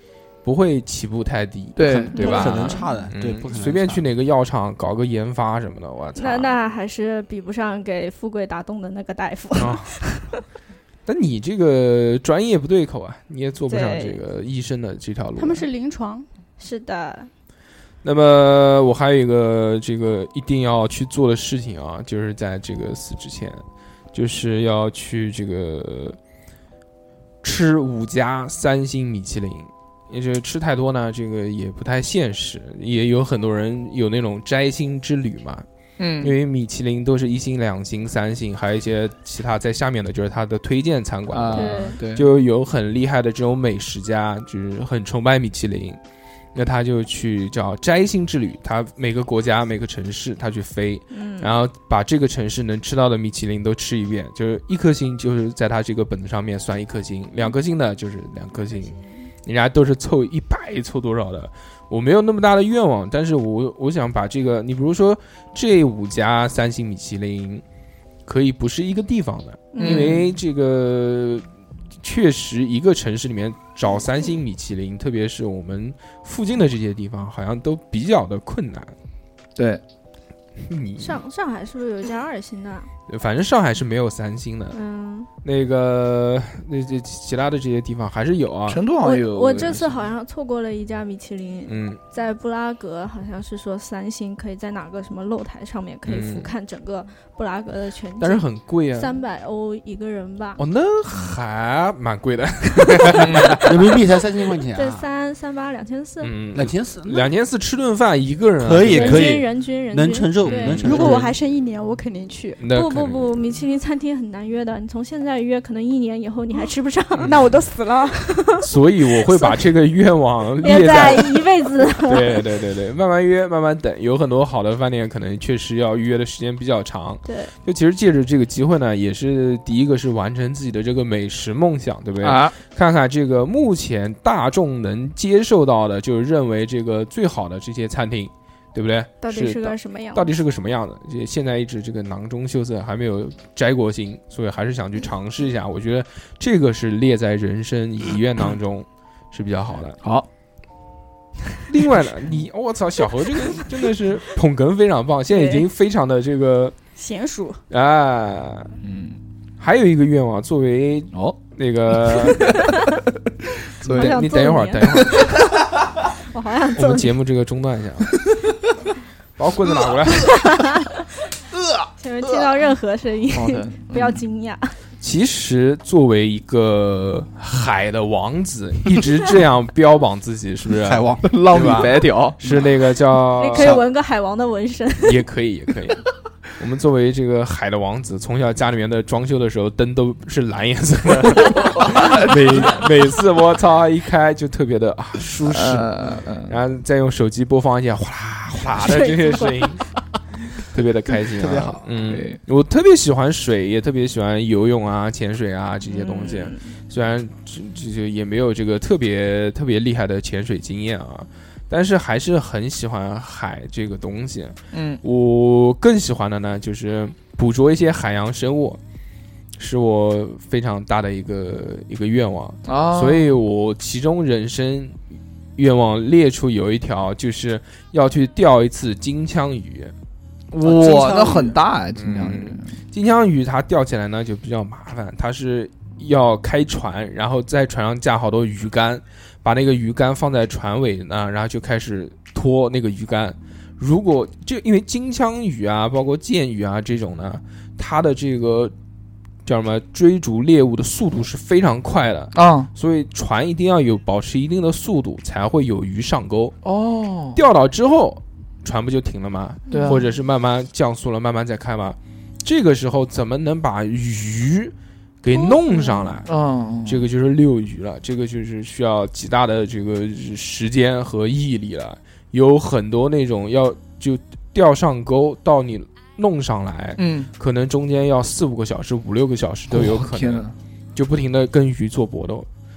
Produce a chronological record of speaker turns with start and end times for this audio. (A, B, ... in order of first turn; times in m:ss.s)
0:00.4-0:06.5 A
0:01.8-0:02.4 B
0:02.1-0:02.9 C
0:02.2-0:04.0 D
0:06.2-0:10.4 C
0:09.6-0:09.9 A
0:11.0-0:15.7 A
0:13.7-0:14.2 C
0:15.4-0:16.3 E
0:16.6-0:17.3 C
0:18.0-0:26.2 A
0:27.4-0:35.6 A
0:36.0-0:36.4 B
0:36.2-0:46.0 A
0:41.3-0:42.3 B
0:41.5-0:42.0 C
0:46.5-1:07.6 A
0:51.1-0:51.5 C
0:58.7-0:59.1 C
1:08.2-1:11.5 A
1:09.7-1:10.2 C
1:09.8-1:10.3 B
1:12.0-1:18.9 A
1:20.6-1:21.2 A
1:21.0-1:22.9 C
1:23.1-1:24.8 A
1:24.7-1:25.3 C
1:25.4-1:28.8 A
1:28.7-1:30.0 B
1:29.0-1:40.6 C
1:31.7-1:32.0 A
1:36.0-1:36.5 A
1:38.2-1:39.2 A
1:40.6-1:43.7 A
1:43.2-1:43.6 B
1:43.5-1:45.0 D
1:44.7-1:46.4 C
1:46.2-1:49.4 A
1:46.5-1:47.3 D
1:48.6-1:51.3 D
1:48.8-1:51.0 C
1:50.4-1:51.3 A
1:50.8-1:52.6 E
1:52.6-1:53.4 A
1:52.7-1:57.4 C
1:57.2-1:57.4 A
1:57.2-1:58.4 E
1:58.4-1:58.7 C
1:58.6-2:01.4 A
1:59.2-1:59.6 C
2:00.6-2:02.5 C
2:02.0-2:30.0 A
2:07.2-2:07.5 C
2:12.2-2:12.6 B
2:19.2-2:20.3 C
2:31.7-2:36.7 A
2:35.4-2:35.6 C
2:37.0-2:37.6 E
2:37.7-2:38.7 A
2:38.8-2:39.2 B
2:39.6-2:42.6 A
2:42.0-2:42.6 B
2:42.6-2:42.9 C
2:43.7-2:44.3 B
2:43.8-2:45.4 A
2:43.8-2:47.1 C
2:45.0-2:45.5 B
2:46.7-2:48.2 A
2:49.4-2:50.4 A
2:50.2-2:51.0 C
2:51.5-2:52.5 B
2:52.0-2:54.8 C
2:53.3-2:54.2 B
2:55.0-3:03.8 A
3:00.7-3:01.9 D
3:01.2-3:02.4 B
3:02.4-3:02.7 D
3:03.2-3:05.2 C
3:03.5-3:03.8 D
3:05.0-3:06.0 A
3:06.6-3:19.8 A
3:11.6-3:12.3 B
3:15.4-3:16.6 B
3:18.7-3:19.8 C
3:20.6-3:38.8 A
3:21.4-3:21.8 D
3:22.1-3:22.4 B
3:25.9-3:26.7 C
3:34.7-3:35.0 B
3:39.6-3:45.0 A
3:42.7-3:43.4 B
3:45.6-3:49.9 A
3:50.5-3:52.8 B
3:50.6-3:51.6 D
3:52.0-4:08.7 A
4:09.4-4:16.6 A
4:12.3-4:12.7 B
4:16.6-4:17.4 B
4:17.3-4:26.3 A
4:19.7-4:20.0 C
4:19.7-4:20.0 B
4:25.3-4:26.2 C
4:26.2-4:27.1 B
4:26.8-4:42.5 A
4:37.0-4:37.3 B
4:39.7-4:40.5 B